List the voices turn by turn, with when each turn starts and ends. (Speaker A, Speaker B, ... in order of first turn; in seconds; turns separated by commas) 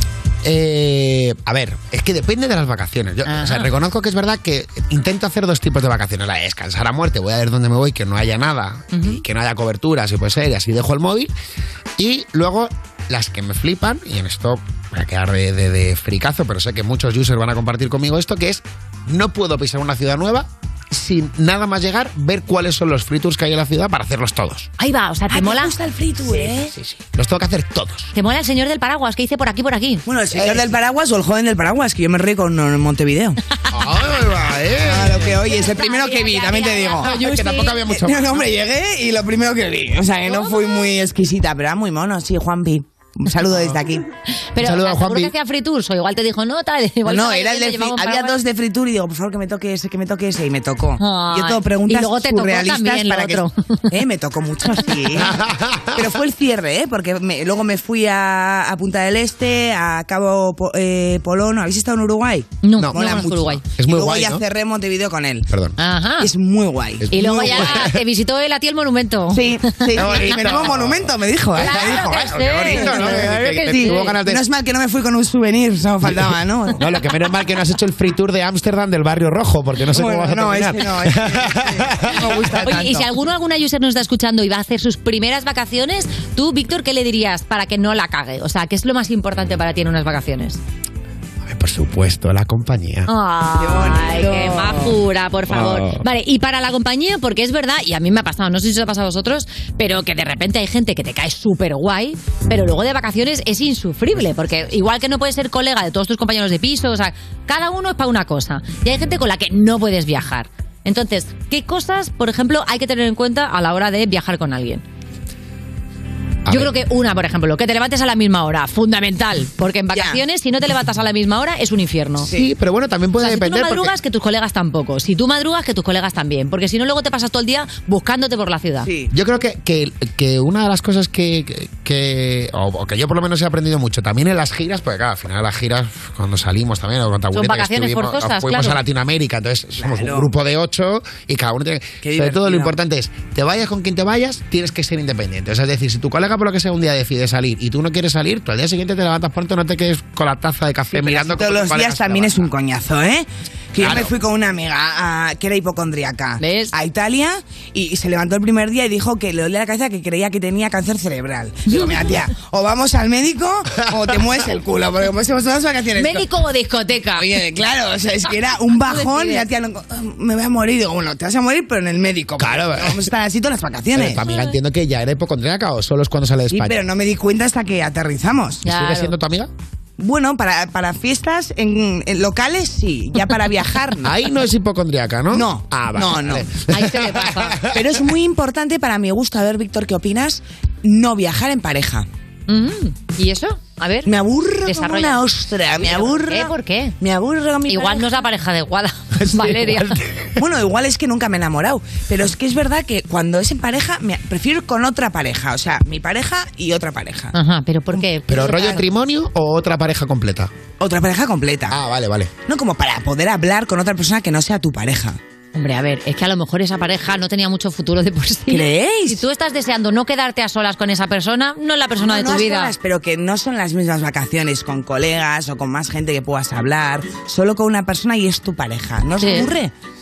Speaker A: 0.4-11.3, Speaker B: 3.3-3.7, Speaker B: 8.9-9.2, Speaker A: 12.0-24.7, Speaker B: 24.8-25.8, Speaker C: 25.3-26.7, Speaker A: 26.4-28.1, Speaker B: 28.1-30.1, Speaker C: 30.1-33.4, Speaker A: 30.3-30.7, Speaker A: 33.7-35.4, Speaker C: 34.8-37.3, Speaker B: 35.4-37.9, Speaker A: 37.0-38.4, Speaker C: 37.9-44.0, Speaker B: 40.3-40.6, Speaker B: 44.5-48.4, Speaker A: 44.6-45.3, Speaker C: 47.0-55.4, Speaker B: 51.0-53.8, Speaker A: 55.2-56.1, Speaker C: 55.9-65.5, Speaker B: 62.6-63.6, Speaker A: 62.8-64.4, Speaker A: 65.5-65.7, Speaker B: 65.8-66.3, Speaker C: 66.2-67.9, Speaker A: 67.0-68.0, Speaker B: 67.1-70.5, Speaker C: 69.3-76.8, Speaker A: 69.9-74.4, Speaker B: 71.6-74.2, Speaker A: 76.8-82.2, Speaker C: 79.9-83.1, Speaker B: 82.6-90.6, Speaker A: 91.5-93.1, Speaker B: 93.1-114.8, Speaker C: 93.6-95.0, Speaker A: 95.5-96.0, Speaker A: 116.5-116.7, Speaker B: 116.5-122.3, Speaker C: 119.9-120.2, Speaker A: 122.3-123.9, Speaker B: 123.2-128.9, Speaker C: 128.8-129.1, Speaker A: 129.1-152.5, Speaker B: 137.3-138.8, Speaker C: 139.8-140.3, Speaker C: 142.0-142.7, Speaker C: 150.9-166.3, Speaker A: 153.8-154.1, Speaker B: 156.4-156.7, Speaker B: 166.0-167.3, Speaker C: 167.2-174.2, Speaker B: 168.8-169.4, Speaker A: 172.4-173.1, Speaker A: 173.9-176.8, Speaker B: 174.2-174.5, Speaker C: 176.5-178.6, Speaker B: 178.6-179.2, Speaker A: 178.6-179.5, Speaker C: 180.0-184.1, Speaker A: 184.0-188.0, Speaker C: 185.3-186.4, Speaker B: 186.7-187.6, Speaker C: 187.7-192.1, Speaker B: 192.5-194.1, Speaker C: 194.1-198.2, Speaker B: 194.6-195.2, Speaker B: 195.8-196.9, Speaker B: 197.7-200.0, Speaker A: 199.2-200.3, Speaker C: 200.4-207.3, Speaker B: 207.3-208.8, Speaker A: 208.3-210.5, Speaker C: 210.8-211.8, Speaker A: 211.7-212.3, Speaker C: 212.5-215.2, Speaker B: 215.6-222.7, Speaker C: 218.5-219.2, Speaker C: 222.0-229.7, Speaker B: 229.2-229.5